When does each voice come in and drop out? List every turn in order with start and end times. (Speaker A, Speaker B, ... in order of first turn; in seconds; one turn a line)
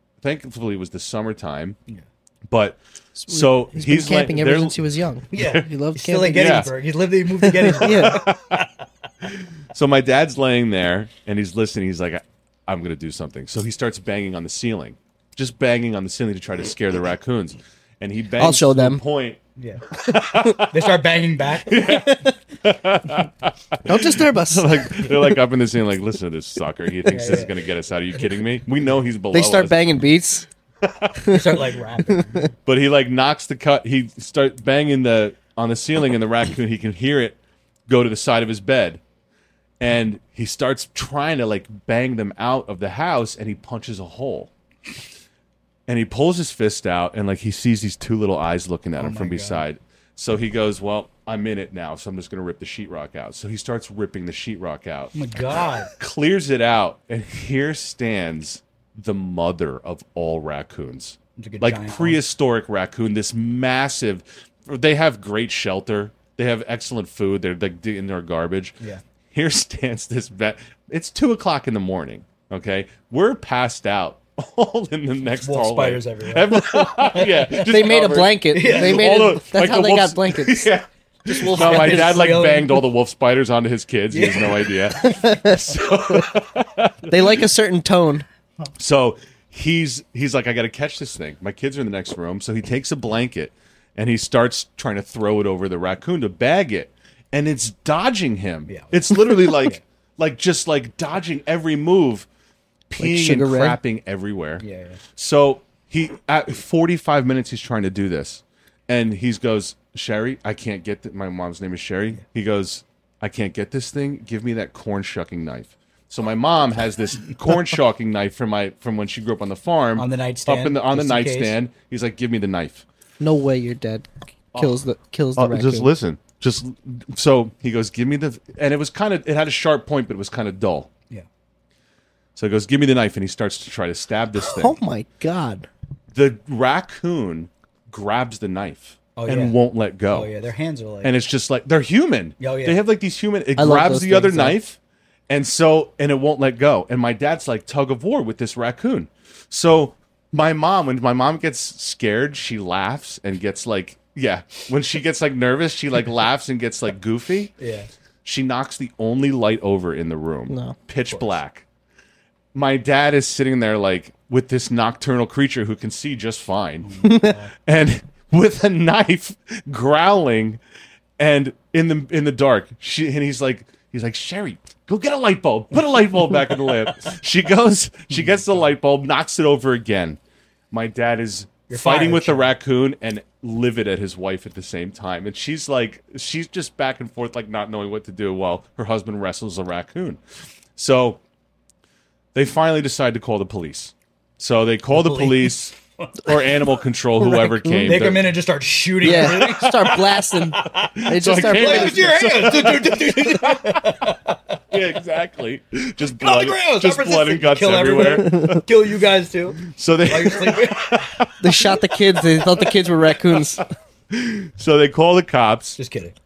Speaker A: 0.2-1.8
Speaker A: 2.5-5.6
Speaker B: 3.2-6.7
Speaker C: 5.3-8.7
Speaker A: 6.3-6.8
Speaker B: 7.4-8.3
Speaker A: 7.7-8.7
Speaker A: 9.2-19.4
Speaker B: 18.4-19.0
Speaker C: 19.6-19.8
Speaker A: 19.9-21.0
Speaker C: 20.5-21.8
Speaker A: 21.6-29.8
Speaker B: 21.9-22.3
Speaker B: 23.9-24.9
Speaker C: 27.1-27.6
Speaker B: 29.3-30.5
Speaker A: 30.8-31.3
Speaker C: 31.3-32.5
Speaker B: 32.1-32.4
Speaker A: 32.6-37.4
Speaker A: 37.9-39.0
Speaker A: 39.8-44.5
Speaker A: 45.9-68.8
Speaker C: 49.0-49.6
Speaker C: 55.1-55.9
Speaker C: 61.4-62.2
Speaker A: 69.3-87.5
Speaker C: 75.4-77.7
Speaker B: 77.5-80.7
Speaker C: 78.5-79.3
Speaker C: 81.3-82.8
Speaker B: 81.6-82.0
Speaker C: 84.1-84.9
Speaker B: 85.0-85.6
Speaker B: 87.1-88.2
Speaker A: 88.8-102.3
Speaker C: 98.7-99.8
Speaker A: 102.9-104.6
Speaker B: 103.0-103.8
Speaker C: 104.6-105.0
Speaker A: 105.2-122.8
Speaker C: 120.0-121.5
Speaker B: 123.2-125.9
Speaker A: 124.5-124.8
Speaker A: 125.4-130.9
Speaker A: 132.4-134.8
Speaker B: 134.5-135.7
Speaker A: 136.1-140.3
Speaker C: 139.2-139.6
Speaker C: 140.1-141.1
Speaker A: 141.0-157.5
Speaker C: 142.4-142.8
Speaker B: 143.6-144.6
Speaker C: 157.6-157.9
Speaker A: 158.2-161.7
Speaker B: 160.5-160.8
Speaker A: 162.5-170.6
Speaker C: 166.8-167.5
Speaker B: 167.0-167.3
Speaker A: 171.2-180.2
Speaker A: 180.7-190.2
Speaker C: 181.7-182.5
Speaker A: 190.8-191.2
Speaker A: 192.3-198.4
Speaker C: 194.9-196.4
Speaker B: 197.3-198.0
Speaker C: 197.8-204.6
Speaker B: 199.0-202.1
Speaker A: 199.2-199.6
Speaker A: 201.0-204.2
Speaker A: 204.7-208.7
Speaker C: 206.2-211.2
Speaker B: 208.2-208.6
Speaker A: 209.6-215.8
Speaker B: 211.4-213.7
Speaker C: 215.8-216.2